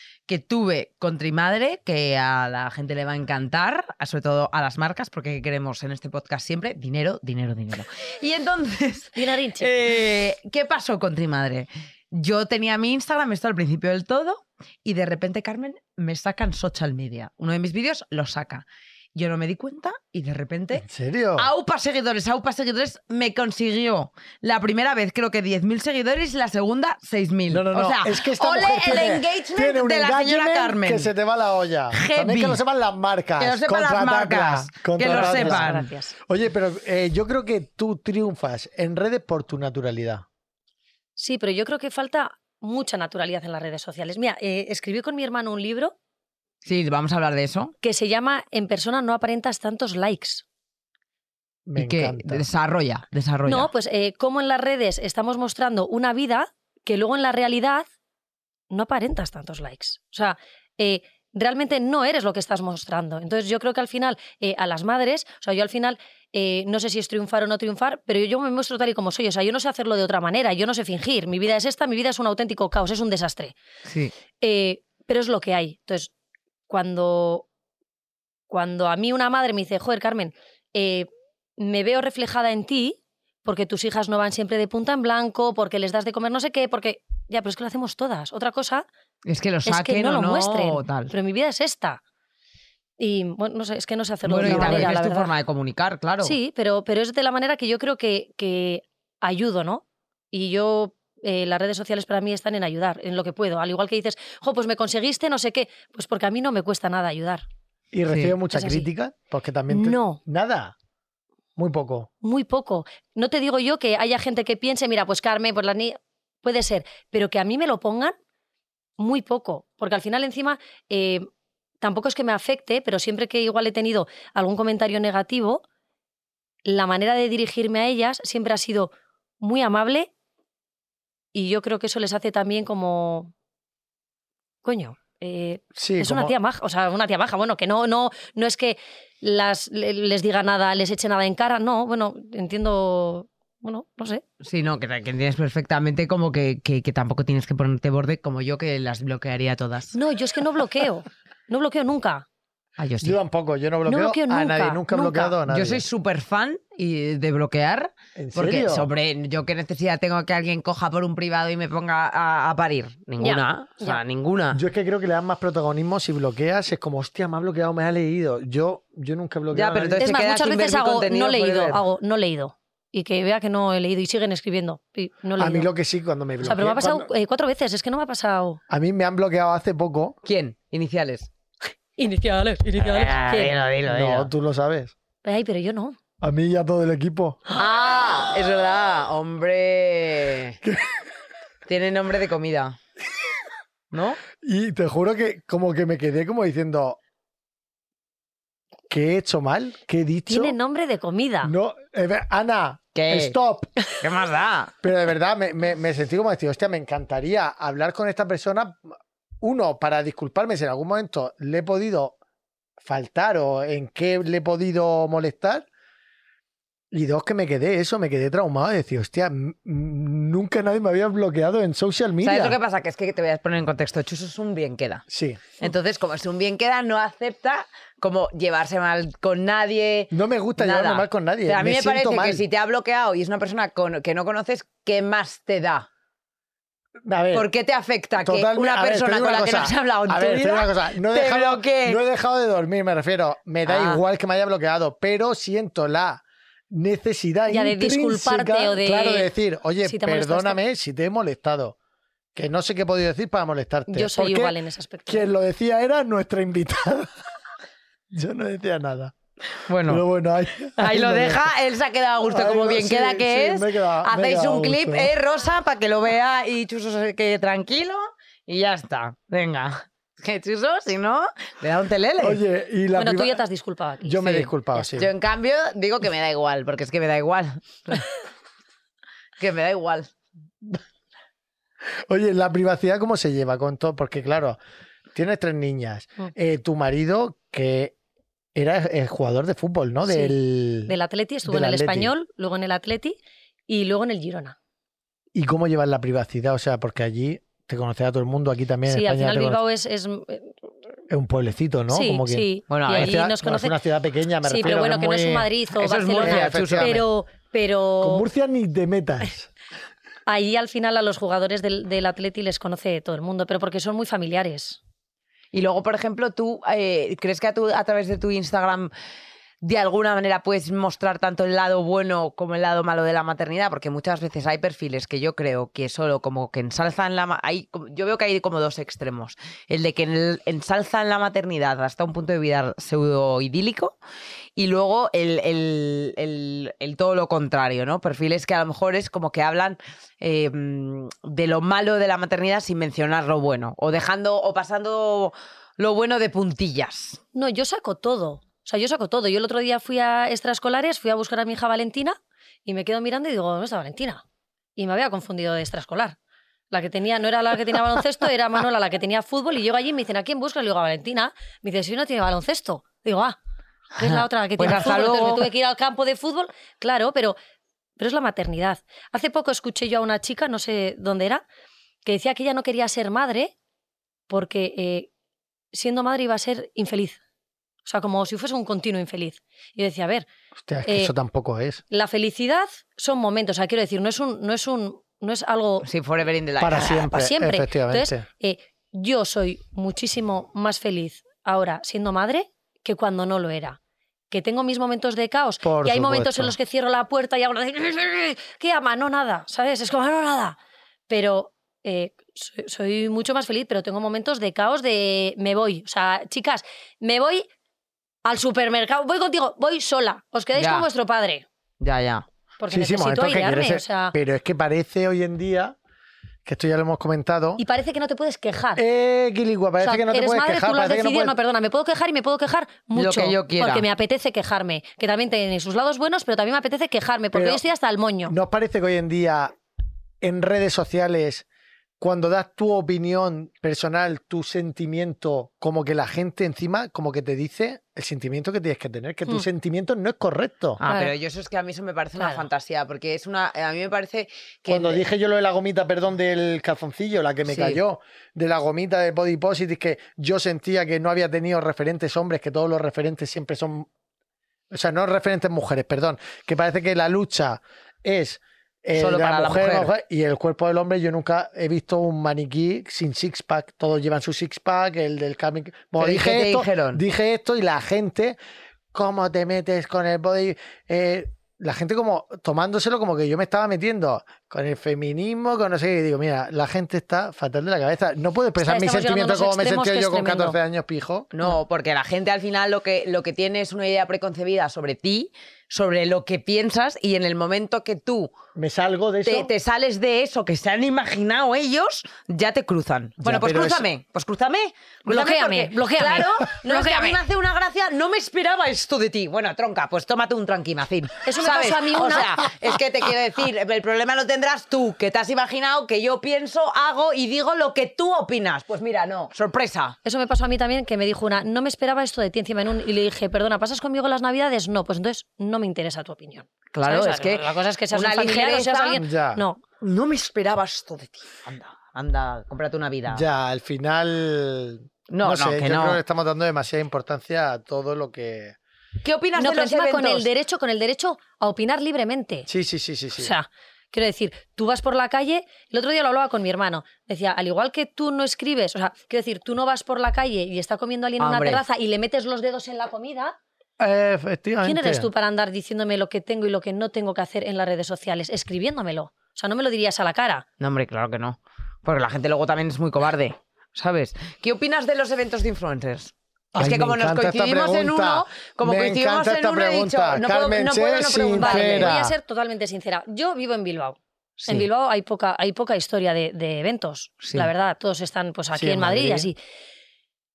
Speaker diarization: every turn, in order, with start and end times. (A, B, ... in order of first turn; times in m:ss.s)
0:00.3-0:20.8 A
0:09.1-0:09.7 B
0:20.8-0:21.5 C
0:21.4-0:31.1 A
0:27.5-0:40.2 C
0:31.9-0:32.6 A
0:33.4-0:35.9 A
0:35.0-0:36.1 B
0:41.2-0:45.9 B
0:46.6-0:47.7 A
0:47.8-0:50.4 B
0:51.6-0:52.4 C
0:51.8-0:53.7 A
0:53.5-0:57.9 B
0:58.7-1:13.5 B
1:13.8-1:14.1 A
1:14.4-1:16.1 B
1:16.7-1:17.4 B
1:18.5-1:28.8 B
1:29.2-1:31.1 A
1:29.6-1:32.0 B
1:33.0-1:35.3 B
1:34.3-1:36.4 A
1:34.4-1:34.9 C
1:36.2-1:47.4 B
1:47.9-1:50.7 C
1:48.1-1:48.3 A
1:48.5-1:48.9 B
1:49.7-1:50.2 B
1:51.6-1:52.1 C
1:52.2-1:58.1 B
1:59.0-2:01.2 B
2:01.8-2:05.6 B
2:06.6-2:10.1 B
2:11.3-2:13.3 B
2:14.6-2:24.2 B
2:15.8-2:16.3 C
2:24.4-2:29.9 A
2:29.9-2:32.2 B
2:32.8-2:33.2 A
2:33.0-2:35.8 C
2:33.8-2:35.4 B
2:35.5-2:44.6 A
2:38.2-2:38.9 C
2:43.2-2:44.0 B
2:44.5-2:50.0 C
2:49.5-2:51.8 A
2:50.0-2:55.7 B
2:55.4-2:57.1 C
2:56.4-2:58.6 B
2:58.7-3:00.1 C
3:00.2-3:01.3 A
3:02.0-3:03.5 B
3:02.8-3:04.3 A
3:03.8-3:04.9 C
3:05.2-3:06.0 B
3:06.2-3:07.4 C
3:07.5-3:10.6 A
3:10.6-3:10.9 C
3:11.7-3:12.8 A
3:13.9-3:14.2 A
3:14.4-3:17.0 C
3:18.9-3:20.6 C
3:20.3-3:21.5 B
3:21.4-3:23.7 C
3:22.9-3:23.3 A
3:24.0-3:24.7 A
3:24.8-3:28.8 C
3:29.4-3:32.2 C
3:32.8-3:35.7 C
3:36.9-3:42.6 C
3:42.2-3:45.0 A
3:45.1-3:45.5 C
3:45.6-3:55.9 A
3:50.1-3:52.4 C
3:57.0-3:57.5 C
3:57.3-4:02.0 A
3:58.2-4:11.8 C
4:03.6-4:04.0 A
4:07.5-4:09.3 B
4:09.8-4:10.6 B
4:12.3-4:17.1 C
4:13.9-4:15.3 B
4:18.1-4:19.1 C
4:19.7-4:20.0 A
4:19.8-4:21.5 C
4:20.8-4:32.4 A
4:22.2-4:25.1 C
4:32.2-4:33.4 C
4:33.0-4:34.2 B
4:34.0-4:35.1 C
4:34.2-4:38.1 A
4:39.4-4:40.1 A
4:42.1-4:44.6 C
4:45.1-4:47.9 C
4:48.5-4:50.9 C
4:50.0-4:50.4 B
4:50.9-4:54.6 B
4:51.4-4:52.1 C
4:55.3-4:59.6 C
4:58.9-5:00.5 B
5:01.1-5:05.5 C
5:01.9-5:03.8 B
5:02.7-5:03.2 A
5:04.4-5:08.2 B
5:05.8-5:07.0 A
5:06.1-5:07.0 C
5:08.0-5:09.5 C
5:10.3-5:14.8 B
5:15.5-5:18.9 A
5:19.6-5:34.0 A
5:34.6-5:47.2 A
5:47.3-5:54.2 B
5:54.8-5:56.2 B
5:56.7-6:03.4 B
6:04.0-6:07.4 B
6:04.0-6:05.5 A
6:08.0-6:11.4 B
6:12.0-6:13.5 B
6:14.3-6:15.1 B
6:15.7-6:17.2 B
6:17.8-6:20.3 B
6:20.6-6:21.8 C
6:20.8-6:21.1 B
6:21.9-6:25.9 B
6:25.8-6:27.0 A
6:26.6-6:28.2 C
6:26.9-6:33.8 B
6:34.3-6:40.6 B
6:35.6-6:36.5 C
6:41.1-6:47.4 B
6:48.2-6:51.4 B
6:50.6-6:50.9 A
6:51.8-6:52.2 A
6:52.6-6:54.1 B
6:52.7-6:55.8 C
6:56.4-6:57.6 C
6:57.6-6:58.8 B
6:58.8-7:01.4 C
6:59.8-7:08.3 B
7:02.9-7:03.8 A
7:07.3-7:07.6 C
7:08.3-7:09.5 C
7:10.2-7:11.4 C
7:12.0-7:20.8 C
7:20.8-7:25.0 A
7:20.8-7:21.1 B
7:22.2-7:22.4 B
7:24.7-7:33.9 C
7:27.5-7:27.8 A
7:34.7-7:48.4 C
7:38.9-7:39.9 A
7:46.0-7:47.0 A
7:48.9-8:01.3 C
7:58.6-8:00.6 B
8:01.3-8:08.3 A
8:08.6-8:09.5 C
8:09.2-8:30.0 A
8:13.2-8:13.9 C
8:15.1-8:17.2 B
8:21.2-8:22.4 B
8:30.0-8:39.6 B
8:36.7-8:39.0 A
8:39.0-8:39.4 C
8:39.8-8:43.2 A
8:43.1-8:48.6 C
8:45.1-8:46.0 A
8:49.0-8:50.3 A
8:49.4-8:52.5 B
8:52.5-8:53.3 C
8:53.2-9:03.4 B
9:01.2-9:01.6 A
9:03.8-9:05.1 C
9:04.6-9:10.4 B
9:10.6-9:22.0 A
9:16.5-9:22.1 C
9:21.4-9:29.4 B
9:24.4-9:24.6 A
9:27.2-9:27.5 A
9:28.5-9:29.3 C